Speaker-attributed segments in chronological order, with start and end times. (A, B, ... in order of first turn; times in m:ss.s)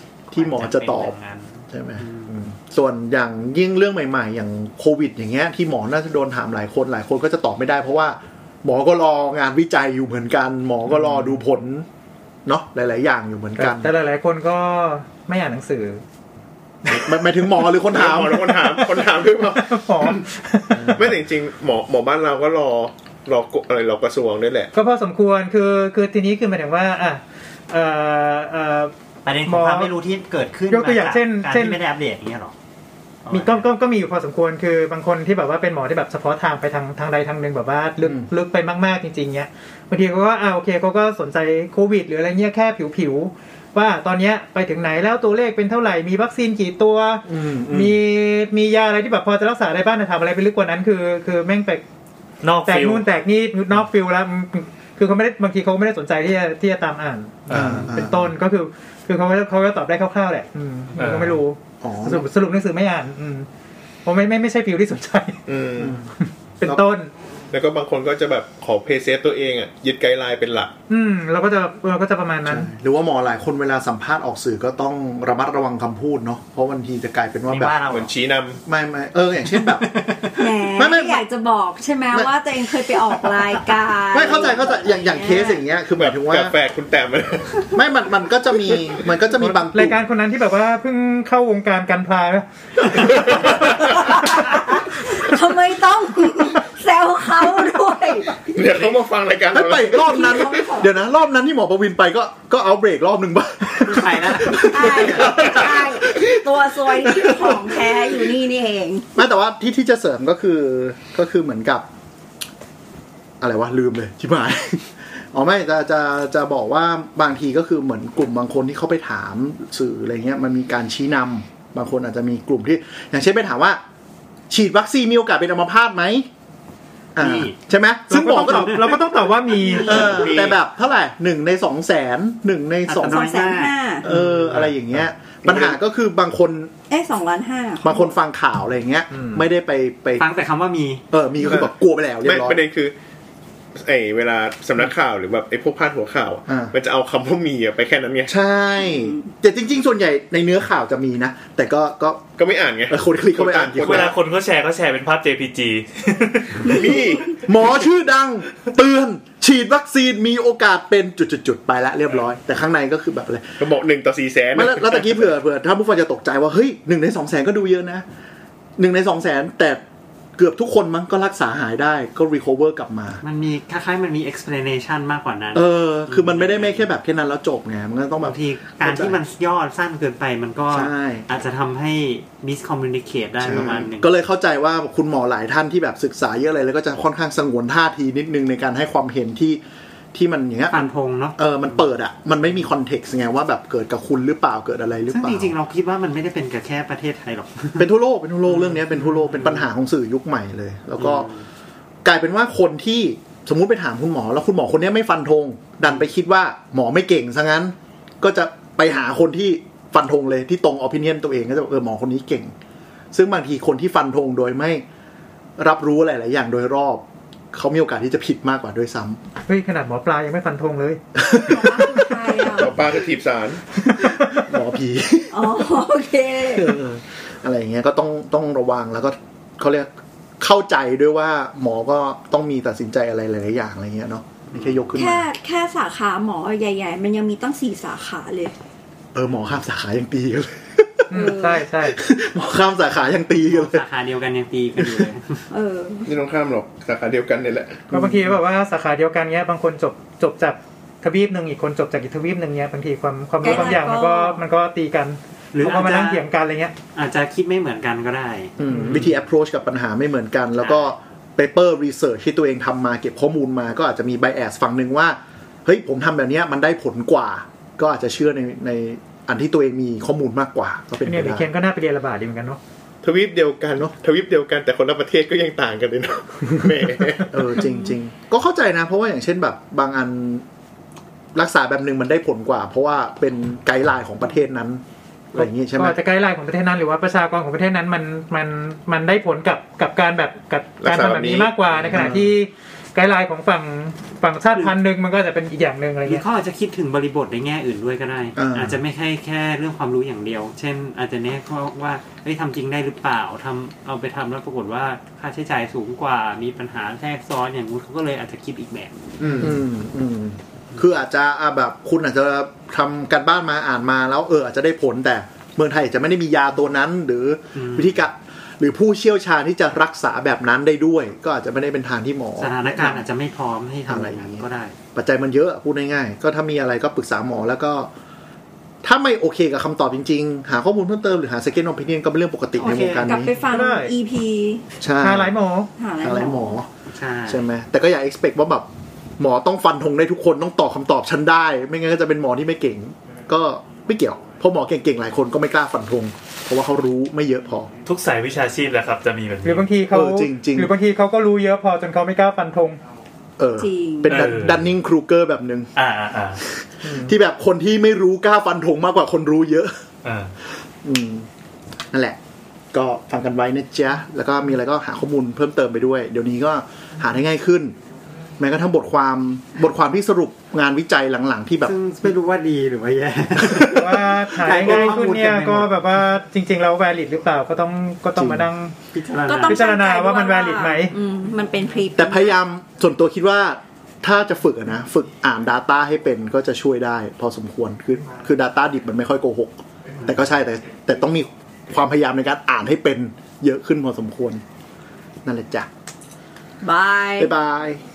0:00.3-0:01.2 A
0:00.4-0:02.4 B
0:01.7-0:11.9 A
0:12.5-0:13.9 A
0:13.6-0:16.0 C
0:16.8-0:18.4 A
0:16.9-0:17.3 D
0:17.8-0:20.2 D
0:18.2-0:21.1 C
0:20.8-0:24.7 D
0:24.7-0:28.9 C
0:29.2-0:32.5 B
0:29.4-0:29.9 C
0:30.7-0:31.8 C
0:33.2-0:33.7 B
0:33.3-0:51.8 C
0:38.0-0:38.3 A
0:47.3-0:48.0 A
0:52.4-0:53.0 E
0:52.6-1:03.5 C
0:57.5-0:57.9 E
0:57.5-0:58.3 A
1:01.0-1:01.4 E
1:01.8-1:02.2 A
1:04.0-1:05.4 C
1:05.5-1:06.0 D
1:05.8-1:06.1 A
1:06.2-1:07.1 C
1:07.5-1:10.7 D
1:10.9-1:12.7 C
1:12.4-1:17.8 A
1:17.5-1:18.2 B
1:17.9-1:18.6 D
1:18.6-1:19.9 A
1:19.4-1:20.6 B
1:20.4-1:25.6 F
1:20.8-1:21.2 A
1:24.1-1:26.6 A
1:26.0-1:27.7 D
1:27.7-1:30.0 A
1:29.3-1:33.2 C
1:33.2-1:33.7 D
1:33.3-1:38.4 F
1:38.4-1:40.0 D
1:38.7-1:38.9 B
1:39.5-1:46.4 A
1:39.8-1:41.0 F
1:43.8-1:45.4 B
1:44.7-1:49.1 F
1:47.0-1:48.4 A
1:49.2-1:51.9 A
1:53.4-2:03.8 A
2:04.5-2:06.3 A
2:07.2-2:07.6 B
2:07.2-2:09.0 A
2:08.1-2:10.2 C
2:08.5-2:08.9 B
2:09.6-2:10.6 B
2:09.8-2:13.2 A
2:09.8-2:10.4 F
2:12.9-2:14.7 B
2:13.1-2:14.0 F
2:14.0-2:16.7 A
2:15.4-2:15.8 D
2:16.9-2:18.1 F
2:17.8-2:20.3 A
2:20.2-2:21.0 B
2:21.1-2:22.6 A
2:21.4-2:23.0 D
2:23.8-2:28.3 D
2:26.5-2:26.7 A
2:28.3-2:32.2 A
2:32.4-2:34.1 D
2:32.9-2:34.2 A
2:33.8-2:36.8 E
2:36.7-2:37.4 D
2:37.4-2:43.6 A
2:43.6-2:45.4 D
2:44.6-2:48.0 A
2:48.8-2:49.8 A
2:50.4-2:53.2 A
2:53.2-2:56.9 B
2:55.5-2:59.2 A
2:58.2-3:04.2 B
3:00.7-3:01.3 A
3:03.4-3:09.6 A
3:10.1-3:10.8 A
3:10.7-3:11.9 B
3:11.4-3:15.6 A
3:15.1-3:17.9 B
3:17.8-3:21.3 A
3:18.5-3:19.7 B
3:21.0-3:21.5 B
3:22.0-3:32.5 A
3:33.1-3:34.8 A
3:35.6-3:39.2 A
3:39.5-3:41.0 C
3:41.2-3:42.7 A
3:41.4-3:42.8 F
3:42.6-3:43.6 D
3:43.9-3:44.4 C
3:44.3-3:45.7 A
3:45.3-3:46.8 F
3:46.5-3:55.3 A
3:54.5-3:55.0 B
3:55.0-3:58.5 F
3:59.2-4:01.2 A
4:01.1-4:02.0 C
4:01.1-4:01.6 F
4:01.8-4:03.8 A
4:03.4-4:05.5 B
4:04.8-4:05.1 A
4:05.5-4:06.1 F
4:06.1-4:07.9 D
4:07.9-4:16.7 C
4:07.9-4:08.4 A
4:13.4-4:14.4 F
4:15.5-4:16.2 B
4:17.0-4:19.2 B
4:18.6-4:31.5 A
4:18.6-4:19.1 C
4:20.6-4:20.9 B
4:31.0-4:32.6 C
4:33.0-4:37.6 D
4:37.3-4:40.4 A
4:41.3-4:46.0 A
4:45.4-4:56.2 C
4:50.8-4:51.6 D
4:51.7-4:52.4 A
4:56.0-5:09.3 B
4:58.4-4:58.8 A
5:09.2-5:09.5 D
5:09.4-5:23.0 A
5:17.6-5:18.1 B
5:22.4-5:24.8 B
5:23.9-5:27.9 A
5:28.8-5:33.3 A
5:32.6-5:33.1 B
5:32.6-5:34.6 F
5:33.5-5:33.9 C
5:34.8-5:35.4 A
5:35.0-5:35.7 C
5:35.8-5:36.6 F
5:36.0-5:36.7 A
5:36.9-5:37.5 B
5:37.3-5:38.7 A
5:39.2-5:47.7 A
5:47.8-5:49.7 E
5:49.4-5:52.8 C
5:49.9-5:50.7 A
5:53.4-5:55.7 A
5:53.6-5:54.2 F
5:54.0-5:54.7 E
5:55.8-5:56.4 E
5:56.7-5:59.7 A
5:56.8-5:57.1 C
6:00.0-6:00.3 E
6:00.8-6:01.3 A
6:02.7-6:07.8 A
6:08.4-6:11.8 A
6:11.6-6:15.8 B
6:13.7-6:18.8 C
6:18.2-6:18.5 A
6:18.9-6:19.6 B
6:19.3-6:22.4 F
6:19.4-6:21.0 C
6:22.0-6:34.4 A
6:35.2-6:35.7 A
6:36.6-6:37.3 F
6:37.2-6:37.8 A